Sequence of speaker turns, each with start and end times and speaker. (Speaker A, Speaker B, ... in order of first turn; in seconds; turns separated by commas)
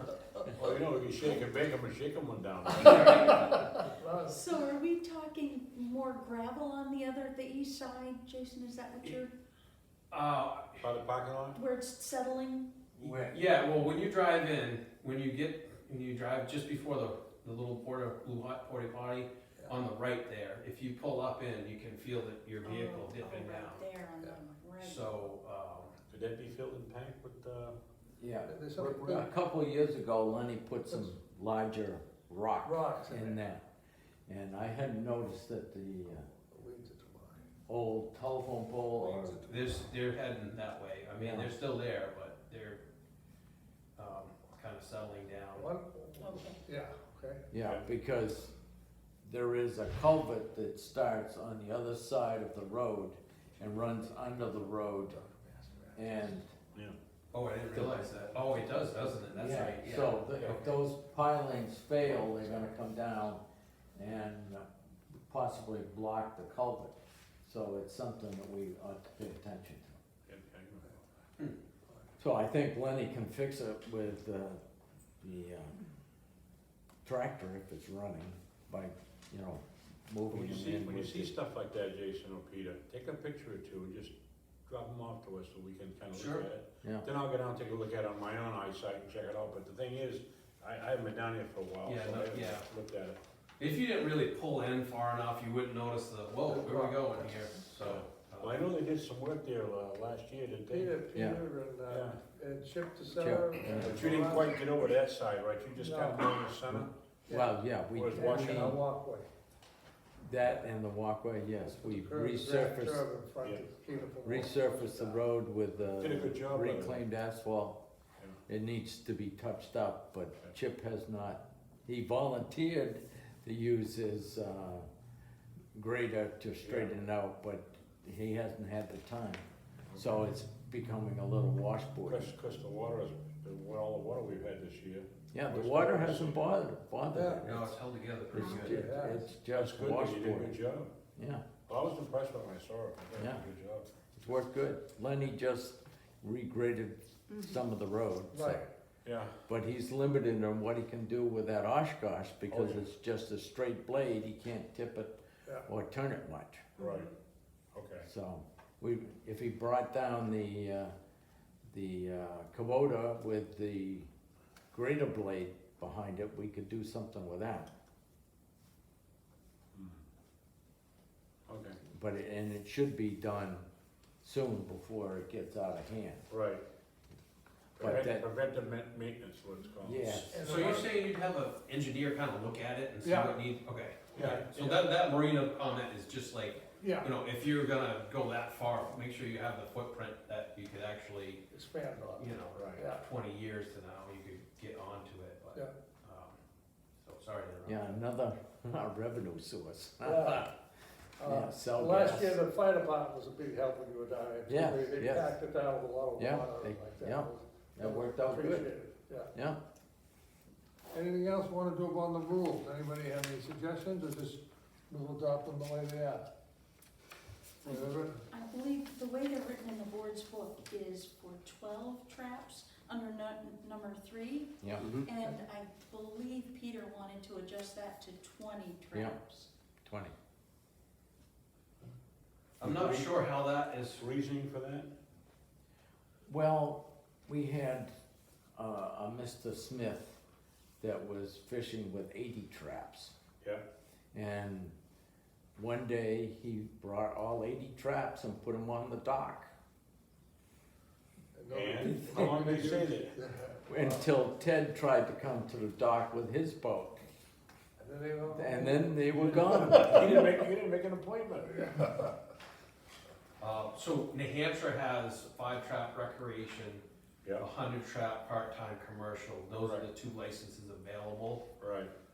Speaker A: 0.5-3.1, Speaker B: 2.7-3.7, Speaker C: 2.9-4.4, Speaker D: 4.3-9.3, Speaker B: 10.1-10.8, Speaker A: 10.8-11.6, Speaker D: 11.5-12.7, Speaker E: 13.0-13.4, Speaker B: 13.0-23.9, Speaker D: 22.6-25.1, Speaker B: 24.8-25.9, Speaker A: 26.1-27.8, Speaker E: 28.2-33.6, Speaker C: 28.5-29.3, Speaker C: 32.6-33.4, Speaker E: 34.3-36.3, Speaker C: 36.3-37.5, Speaker E: 37.7-39.4, Speaker C: 39.0-39.5, Speaker B: 39.4-42.8, Speaker E: 41.2-41.5, Speaker B: 44.0-45.7, Speaker C: 45.5-47.5, Speaker D: 46.2-46.6, Speaker E: 47.5-48.5, Speaker A: 47.6-47.8, Speaker E: 49.2-55.1, Speaker C: 54.1-56.3, Speaker E: 55.9-56.5, Speaker B: 57.3-60.8, Speaker E: 57.7-58.1, Speaker E: 59.1-63.4, Speaker E: 64.0-64.7, Speaker E: 65.2-69.9, Speaker A: 70.2-71.0, Speaker E: 72.2-74.6, Speaker E: 75.2-75.8, Speaker E: 77.0-81.3, Speaker A: 80.3-84.1, Speaker A: 84.7-93.2, Speaker B: 86.1-86.5, Speaker B: 91.8-92.7, Speaker B: 93.6-98.6, Speaker C: 96.5-97.3, Speaker A: 98.4-101.0, Speaker C: 100.7-104.6, Speaker E: 101.1-101.4, Speaker A: 101.9-102.2, Speaker E: 103.1-104.1, Speaker A: 103.7-106.9, Speaker C: 105.8-106.3, Speaker E: 106.7-108.8, Speaker C: 107.3-107.5, Speaker A: 107.9-108.8, Speaker C: 108.1-109.3, Speaker E: 110.2-113.0, Speaker C: 111.7-115.2, Speaker A: 113.4-113.9, Speaker E: 114.2-117.8, Speaker A: 116.0-117.0, Speaker E: 118.5-124.9, Speaker E: 125.7-132.3, Speaker A: 126.6-127.0, Speaker A: 129.9-130.2, Speaker A: 132.0-136.4, Speaker E: 135.3-137.8, Speaker C: 137.1-137.4, Speaker B: 137.4-138.8, Speaker E: 138.3-140.6, Speaker D: 138.3-138.6, Speaker C: 138.6-139.2, Speaker A: 139.5-140.9, Speaker E: 141.2-141.4, Speaker A: 141.7-143.9, Speaker E: 143.2-143.4, Speaker E: 144.2-148.6, Speaker D: 147.3-147.5, Speaker C: 148.3-148.7, Speaker A: 149.0-149.3, Speaker E: 149.5-156.7, Speaker A: 152.5-152.8, Speaker A: 156.8-157.1, Speaker A: 157.7-158.1, Speaker E: 158.0-160.9, Speaker E: 161.7-164.1, Speaker E: 164.7-167.7, Speaker A: 169.7-170.0, Speaker A: 171.5-171.8, Speaker E: 171.8-173.6, Speaker E: 174.2-176.3, Speaker A: 176.3-176.6, Speaker E: 177.8-178.2, Speaker A: 177.8-180.2, Speaker E: 179.8-180.4, Speaker B: 180.0-191.4, Speaker C: 180.3-180.9, Speaker C: 183.0-183.4, Speaker A: 184.1-184.9, Speaker C: 186.8-187.1, Speaker C: 191.5-193.0, Speaker B: 192.2-196.3, Speaker A: 192.5-192.8, Speaker B: 197.0-198.0, Speaker E: 197.6-200.5, Speaker C: 200.0-200.5, Speaker C: 201.2-209.3, Speaker E: 201.2-202.4, Speaker E: 204.5-205.3, Speaker E: 206.2-208.7, Speaker E: 209.3-209.6, Speaker C: 210.9-216.3, Speaker D: 217.6-229.5, Speaker C: 217.7-218.2, Speaker E: 224.6-224.9, Speaker E: 228.9-229.2, Speaker E: 229.8-230.1, Speaker B: 232.6-234.0, Speaker A: 232.6-233.2, Speaker A: 233.9-234.9, Speaker E: 236.3-237.9, Speaker E: 238.6-240.2, Speaker E: 240.8-243.1, Speaker E: 244.1-244.7, Speaker E: 245.6-249.5, Speaker C: 251.3-254.0, Speaker A: 251.5-253.2, Speaker E: 252.1-252.6, Speaker E: 253.7-257.0, Speaker C: 257.8-259.0, Speaker E: 258.3-260.3, Speaker A: 259.1-261.8, Speaker C: 259.8-260.3, Speaker C: 261.6-262.1, Speaker B: 263.4-266.8, Speaker B: 267.4-271.5, Speaker A: 269.6-269.9, Speaker A: 271.6-271.9